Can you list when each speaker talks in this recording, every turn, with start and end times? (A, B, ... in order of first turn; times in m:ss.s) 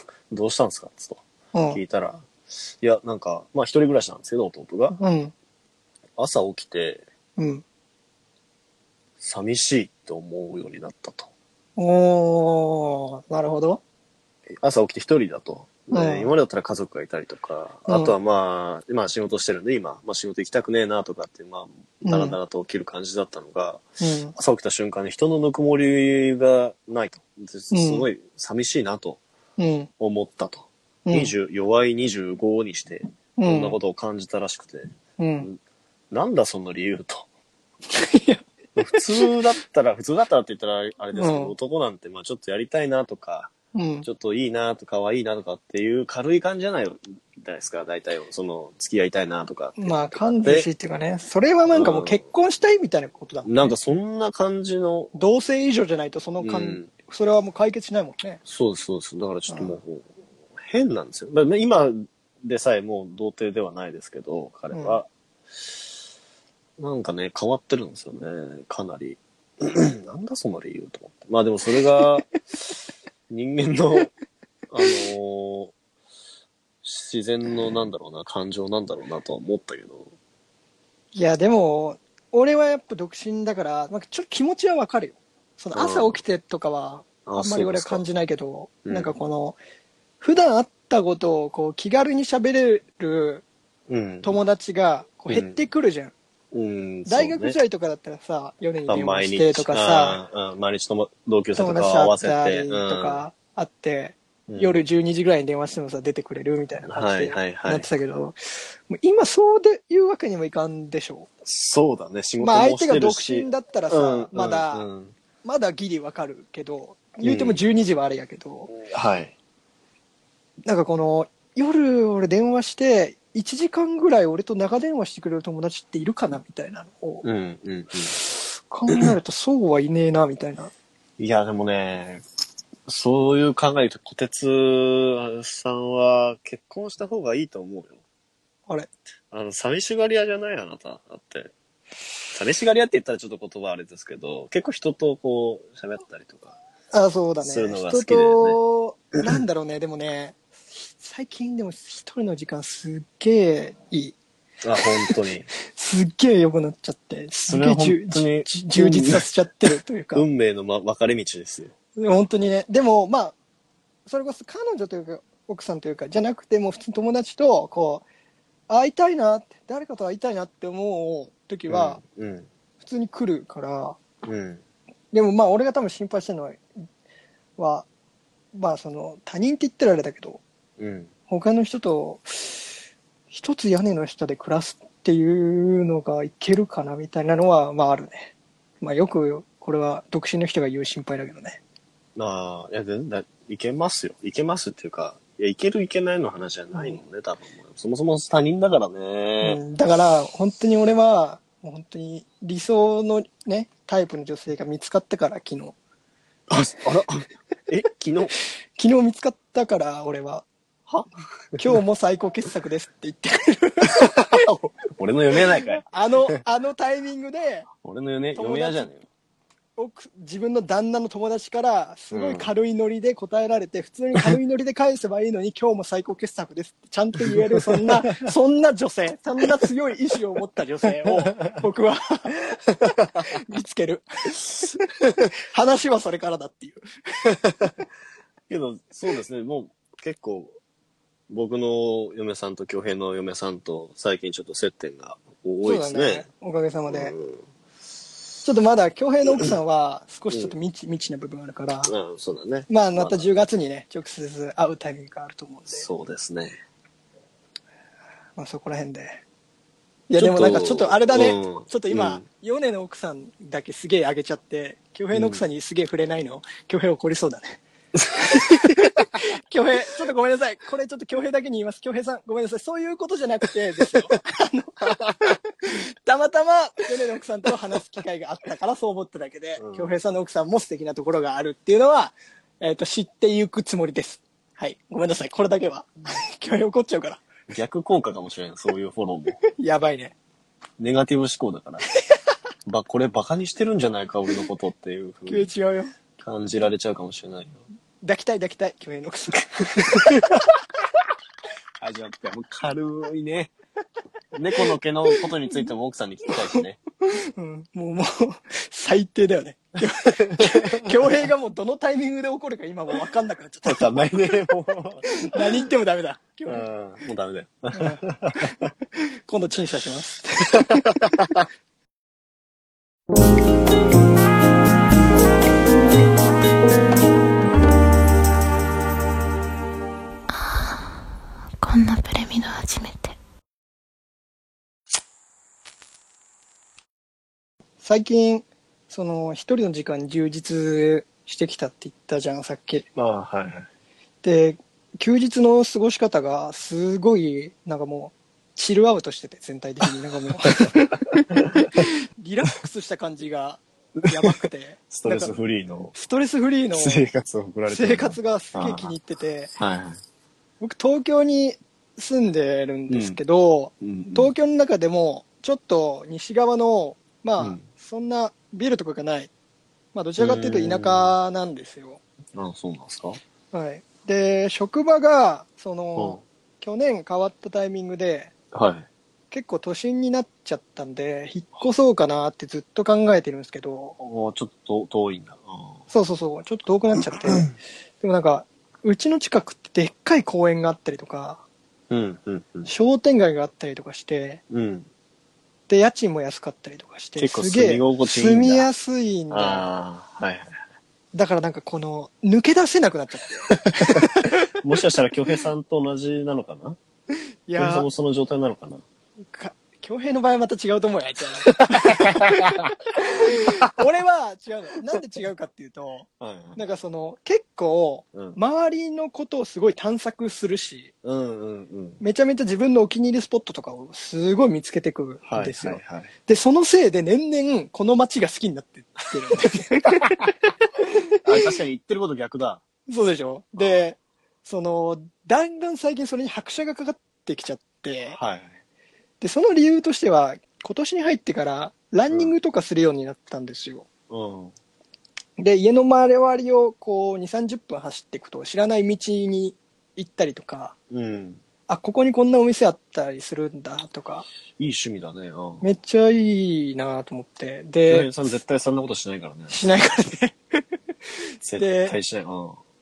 0:00.3-0:05.0 A
0:01.5-0:01.8 B
0:05.0-0:05.3 B
0:06.2-0:07.0 A
0:07.4-0:07.6 B
0:09.2-0:11.3 A
0:11.8-0:13.8 B
0:14.5-0:29.2 A
0:15.9-0:16.3 B
0:17.9-0:18.1 B
0:22.0-0:22.4 B
0:24.0-0:24.3 B
0:27.7-0:28.1 B
0:29.6-0:29.9 B
0:30.0-0:35.6 A
0:31.0-0:31.3 B
0:33.4-0:33.8 B
0:35.2-0:35.5 B
0:36.1-0:37.3 A
0:37.9-0:39.3 B
0:38.8-0:43.5 A
0:41.2-0:41.5 B
0:43.7-0:44.0 B
0:44.0-0:50.7 A
0:49.8-0:53.8 B
0:51.7-0:52.2 A
0:53.4-0:55.1 A
0:55.1-0:58.4 B
0:56.4-0:56.9 A
0:58.4-1:05.8 A
0:59.5-0:59.7 B
1:04.7-1:05.0 B
1:06.8-1:12.8 A
1:13.3-1:14.1 A
1:14.7-1:15.7 A
1:16.8-1:20.1 A
1:21.1-1:29.6 B
1:25.7-1:26.2 A
1:27.2-1:28.0 A
1:28.8-1:29.1 A
1:30.2-1:33.4 B
1:33.9-1:34.4 A
1:34.2-1:36.1 B
1:35.3-1:35.6 A
1:36.5-1:37.6 A
1:37.0-1:40.2 B
1:38.9-1:43.2 A
1:41.5-1:51.3 B
1:44.5-1:44.8 A
1:46.8-1:47.9 A
1:51.4-1:55.2 A
1:52.4-1:54.9 B
1:55.4-1:58.7 B
1:57.2-1:57.6 A
1:58.7-1:59.3 A
2:00.6-2:07.2 B
2:07.2-2:08.1 A
2:08.2-2:10.7 B
2:11.2-2:12.2 A
2:12.8-2:18.0 A
2:19.3-2:21.5 A
2:22.3-2:26.6 A
2:26.9-2:30.4 B
2:27.4-2:28.6 A
2:30.9-2:34.2 B
2:34.6-2:35.5 A
2:34.8-2:40.2 B
2:37.5-2:41.7 A
2:42.0-2:43.3 B
2:44.0-2:48.0 B
2:48.7-2:52.0 B
2:51.7-2:52.5 A
2:52.8-2:54.0 B
2:54.2-2:54.6 A
2:55.1-2:56.6 B
2:57.6-2:57.9 B
2:58.5-3:00.4 B
3:00.8-3:01.1 A
3:01.3-3:02.7 B
3:03.3-3:11.6 B
3:12.2-3:19.6 A
3:16.7-3:17.0 B
3:19.4-3:25.7 B
3:26.5-3:28.3 A
3:28.8-3:30.4 B
3:30.9-3:31.7 A
3:31.6-3:34.4 B
3:34.0-3:35.8 A
3:35.8-3:37.7 B
3:37.8-3:39.0 A
3:38.3-3:38.9 B
3:39.8-3:54.8 B
3:42.1-3:42.5 A
3:47.2-3:48.2 A
3:50.8-3:51.6 A
3:55.5-3:56.8 B
3:58.5-4:00.6 A
4:01.3-4:06.3 A
4:05.6-4:07.1 B
4:06.9-4:07.4 A
4:08.4-4:11.9 B
4:11.8-4:13.4 A
4:12.7-4:15.9 B
4:15.7-4:16.6 A
4:18.4-4:19.2 B
4:20.1-4:27.6 B
4:20.2-4:22.2 A
4:25.1-4:25.4 A
4:28.0-4:28.8 A
4:28.3-4:47.2 B
4:39.6-4:39.9 A
4:47.5-4:49.4 A
4:49.6-4:50.1 B
4:50.8-4:51.8 A
4:52.6-4:55.5 A
4:55.3-4:55.9 B
4:56.2-4:57.6 A
4:58.0-5:00.5 B
4:59.8-5:00.1 A
5:01.8-5:03.5 A
5:04.3-5:06.8 A
5:04.6-5:05.6 B
5:06.5-5:14.3 B
5:09.9-5:11.1 A
5:13.6-5:15.6 A
5:15.1-5:16.7 B
5:16.5-5:18.7 A
5:17.7-5:20.8 B
5:20.5-5:21.4 A
5:30.3-5:31.0 C
5:31.6-5:33.2 C
5:37.8-5:42.8 B
5:42.9-5:43.7 A
5:44.2-5:55.3 B
5:50.4-5:50.8 A
5:51.3-5:51.6 A
5:54.0-5:54.3 A
5:54.9-5:55.9 A
5:55.9-5:57.0 B
5:56.7-5:59.0 A
5:57.7-5:59.5 B
5:59.6-6:00.0 A
6:00.6-6:09.3 B
6:02.9-6:03.2 A
6:03.8-6:04.3 A
6:07.4-6:07.6 A
6:09.9-6:12.0 B
6:10.2-6:11.2 A
6:12.3-6:13.2 A
6:13.5-6:18.3 B
6:16.0-6:16.2 A
6:18.5-6:18.9 A
6:19.3-6:24.0 B
6:24.0-6:25.8 A
6:25.9-6:27.5 B
6:28.0-6:31.4 B
6:31.9-6:32.7 A
6:32.6-6:34.4 B
6:34.5-6:34.9 A
6:35.7-6:39.7 B
6:37.2-6:38.7 A
6:39.3-6:40.6 A
6:41.1-6:44.4 B
6:43.5-6:46.8 A
6:47.5-6:47.9 B
6:47.6-6:48.8 A
6:49.3-7:00.9 B
6:51.4-6:53.7 A
6:56.2-6:56.6 A
6:58.1-6:58.4 A
7:01.0-7:02.0 A
7:02.0-7:10.3 B
7:05.2-7:06.1 A
7:11.2-7:12.6 A
7:12.9-7:18.2 B
7:18.1-7:18.6 A
7:19.2-7:23.9 B
7:24.1-7:24.5 A
7:25.4-7:30.8 B
7:30.9-7:31.4 A
7:31.7-7:34.3 B
7:34.6-7:35.7 A
7:35.6-7:38.1 B
7:37.8-7:39.5 A
7:39.5-7:40.6 B
7:41.4-7:42.6 A
7:41.6-7:42.0 B